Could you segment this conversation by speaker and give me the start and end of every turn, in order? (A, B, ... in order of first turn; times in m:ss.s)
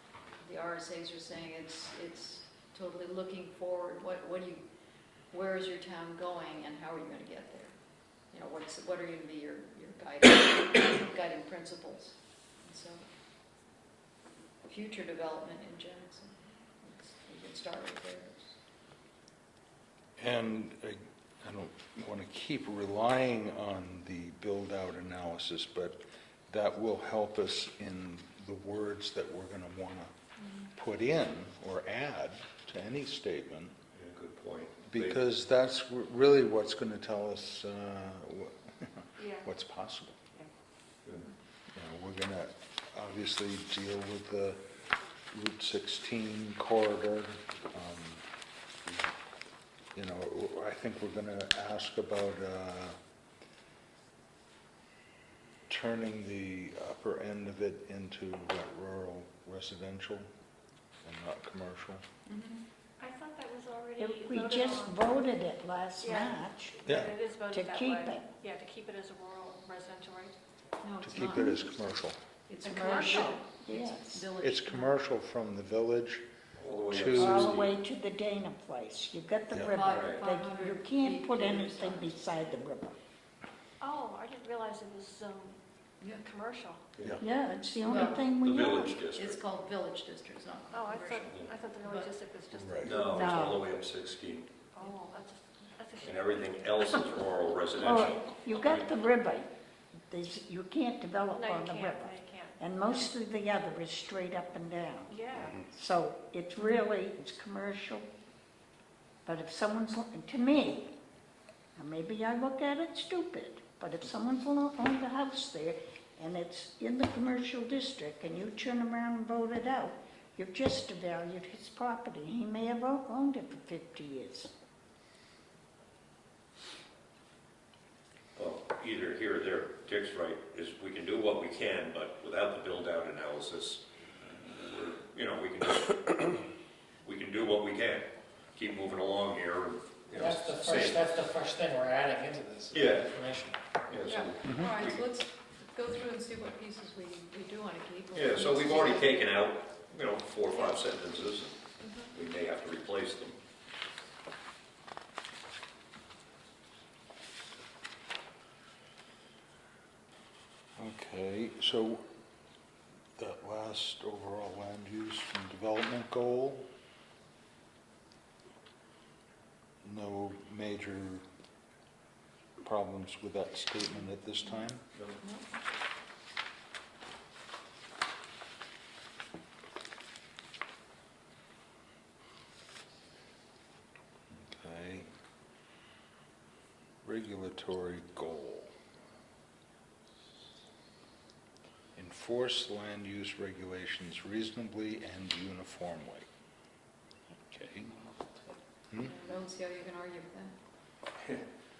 0:00.4-0:04.6 A
0:05.3-0:07.8 A
0:08.3-0:13.0 A
0:14.6-0:18.6 A
0:20.2-0:30.1 B
0:30.7-0:33.7 B
0:34.0-0:35.2 C
0:34.9-0:40.3 B
0:39.2-0:39.4 D
0:41.7-0:44.6 B
0:45.3-0:48.2 B
0:50.0-0:53.0 B
0:55.7-1:00.3 B
1:01.0-1:02.0 B
1:02.3-1:02.6 A
1:03.0-1:05.0 D
1:04.0-1:06.9 E
1:06.0-1:10.4 D
1:06.8-1:07.2 B
1:07.4-1:08.4 E
1:10.8-1:11.8 A
1:11.0-1:12.2 B
1:11.3-1:11.6 E
1:12.5-1:14.9 A
1:12.6-1:13.4 D
1:12.7-1:14.3 E
1:14.4-1:16.2 B
1:16.6-1:17.7 C
1:16.9-1:17.7 B
1:17.1-1:23.0 E
1:19.5-1:19.8 B
1:19.6-1:22.2 A
1:19.9-1:20.2 C
1:23.8-1:26.9 D
1:27.2-1:29.0 E
1:27.8-1:28.3 A
1:28.4-1:29.4 C
1:29.2-1:32.1 A
1:30.7-1:33.5 D
1:32.6-1:33.1 B
1:32.8-1:34.5 C
1:33.1-1:33.6 E
1:34.8-1:37.1 D
1:36.0-1:38.8 C
1:37.8-1:39.5 E
1:40.1-1:48.1 E
1:41.3-1:43.1 D
1:45.1-1:45.6 D
1:49.2-1:50.9 E
1:51.8-2:04.5 E
2:08.4-2:16.4 C
2:17.0-2:21.0 C
2:20.1-2:23.6 F
2:22.7-2:23.1 C
2:23.9-2:25.0 C
2:24.1-2:29.3 A
2:24.5-2:24.7 B
2:28.1-2:31.6 C
2:31.8-2:32.1 A
2:32.1-2:33.4 C
2:40.8-2:42.0 B
2:43.2-2:46.6 B
2:49.8-2:51.2 B
2:52.6-2:54.8 B
2:55.2-2:55.5 A
3:04.4-3:05.1 B
3:07.0-3:08.7 B
3:12.0-3:16.3 B
3:17.5-3:18.0 B
3:19.0-3:20.6 A